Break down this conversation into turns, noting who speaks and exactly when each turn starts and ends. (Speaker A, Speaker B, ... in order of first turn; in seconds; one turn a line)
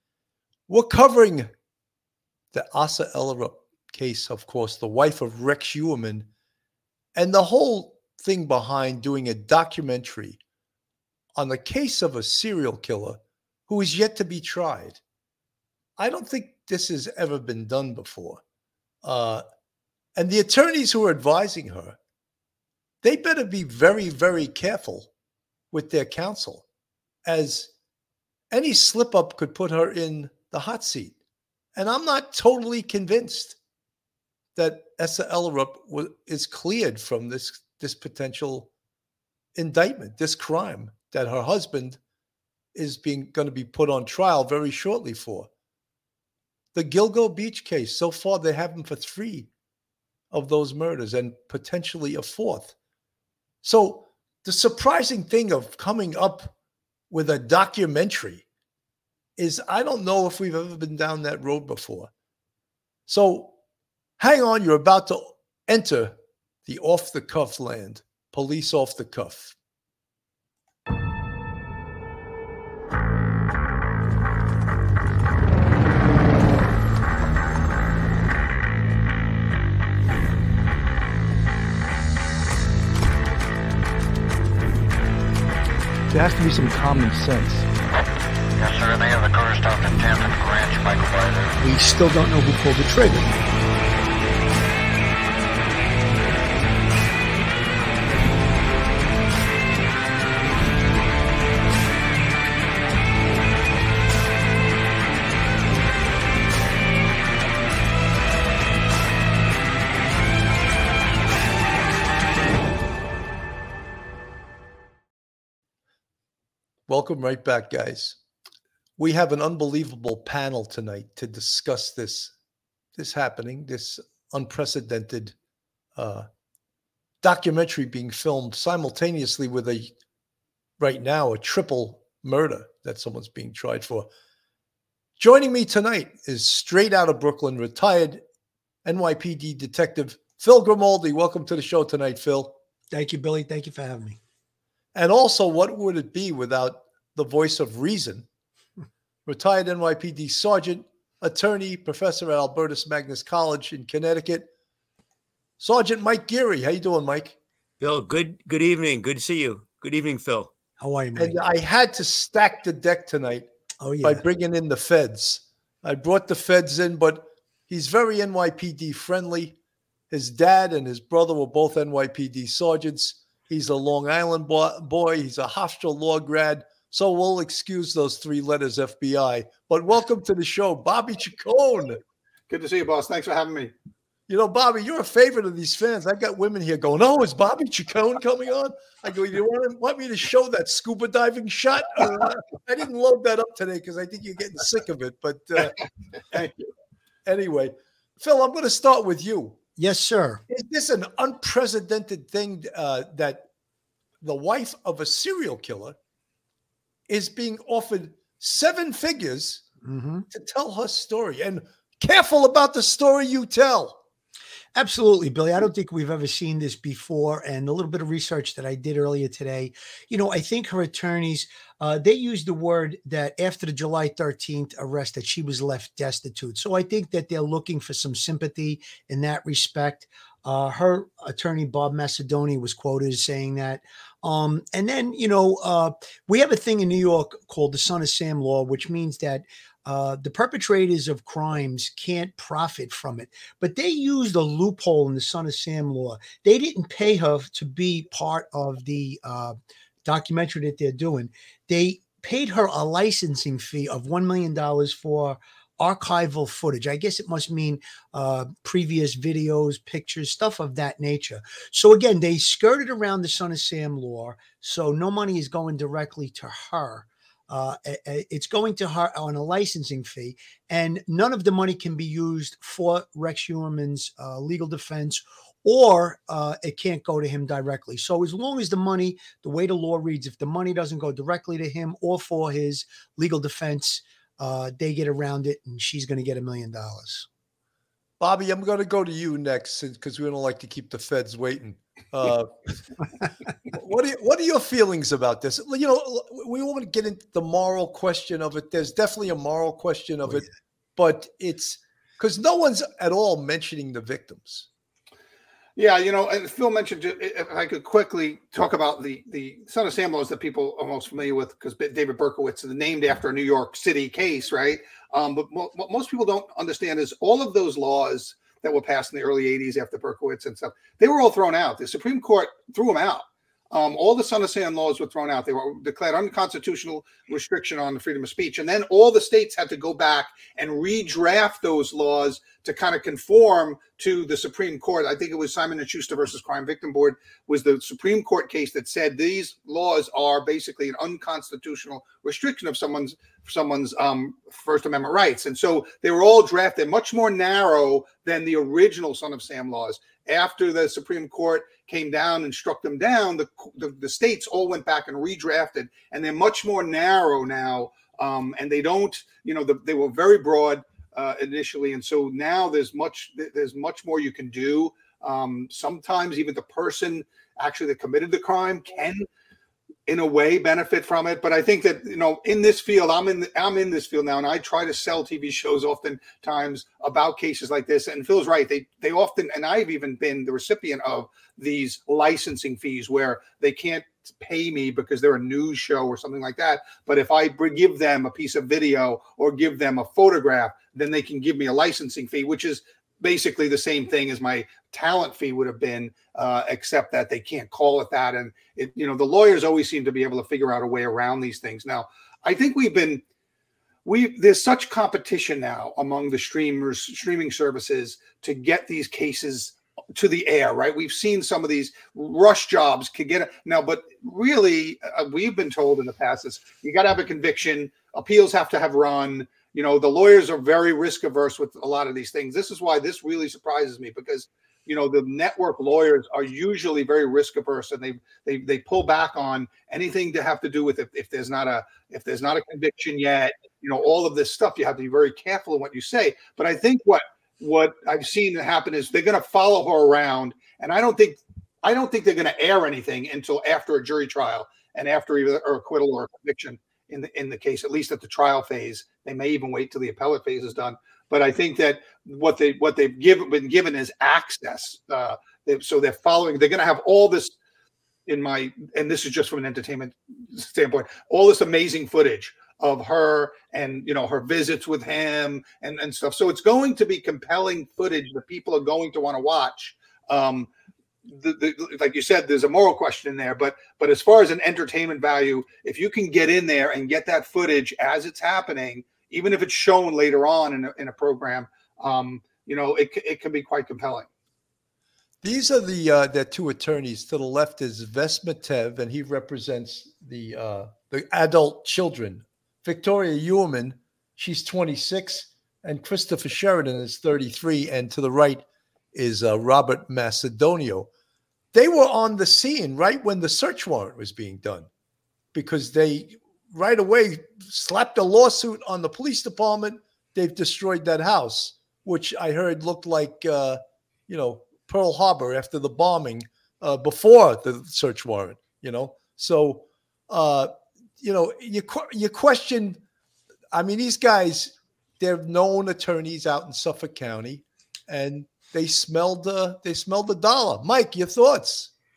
Speaker A: 0.7-1.5
Speaker A: 2.5-6.3
Speaker A: 7.2-10.4
Speaker A: 11.4-15.0
Speaker A: 16.0-18.4
Speaker A: 19.0-19.4
Speaker A: 20.2-22.0
Speaker A: 23.0-25.1
Speaker A: 25.7-26.6
Speaker A: 27.2-27.7
Speaker A: 28.5-31.2
Speaker A: 31.8-33.6
Speaker A: 34.6-38.7
Speaker A: 39.5-42.0
Speaker A: 42.8-45.5
Speaker A: 46.7-49.5
Speaker A: 50.3-52.8
Speaker A: 53.6-56.5
Speaker A: 57.1-58.5
Speaker A: 59.4-62.1
Speaker A: 63.1-63.6
Speaker A: 64.2-69.6
Speaker B: 86.2-86.9
Speaker C: 88.6-91.5
Speaker B: 91.6-93.3
Speaker A: 116.9-118.2
Speaker A: 119.0-122.3
Speaker A: 123.0-125.3
Speaker A: 126.0-126.3
Speaker A: 127.2-129.9
Speaker A: 130.8-134.1
Speaker A: 135.2-138.2
Speaker A: 138.8-142.6
Speaker B: 142.9-144.2
Speaker A: 144.9-148.3
Speaker A: 149.3-154.5
Speaker A: 155.6-157.4
Speaker D: 157.8-160.5
Speaker B: 160.8-161.4
Speaker A: 161.2-163.5
Speaker B: 163.8-164.2
Speaker A: 164.0-169.6
Speaker A: 170.1-182.0
Speaker E: 182.5-183.7
Speaker A: 184.3-195.8
Speaker A: 197.3-199.6
Speaker B: 199.8-200.4
Speaker A: 200.5-203.5
Speaker A: 204.2-206.0
Speaker A: 207.1-209.7
Speaker B: 209.8-210.3
Speaker A: 210.3-214.0
Speaker B: 214.8-287.3
Speaker A: 288.2-292.5
Speaker A: 293.7-300.5
Speaker A: 301.0-304.7
Speaker E: 305.8-369.3
Speaker E: 370.1-403.2
Speaker E: 404.1-457.6
Speaker E: 458.3-470.7
Speaker E: 471.3-484.3
Speaker A: 485.4-501.1
Speaker A: 501.7-504.9
Speaker A: 505.5-523.0
Speaker A: 523.7-531.9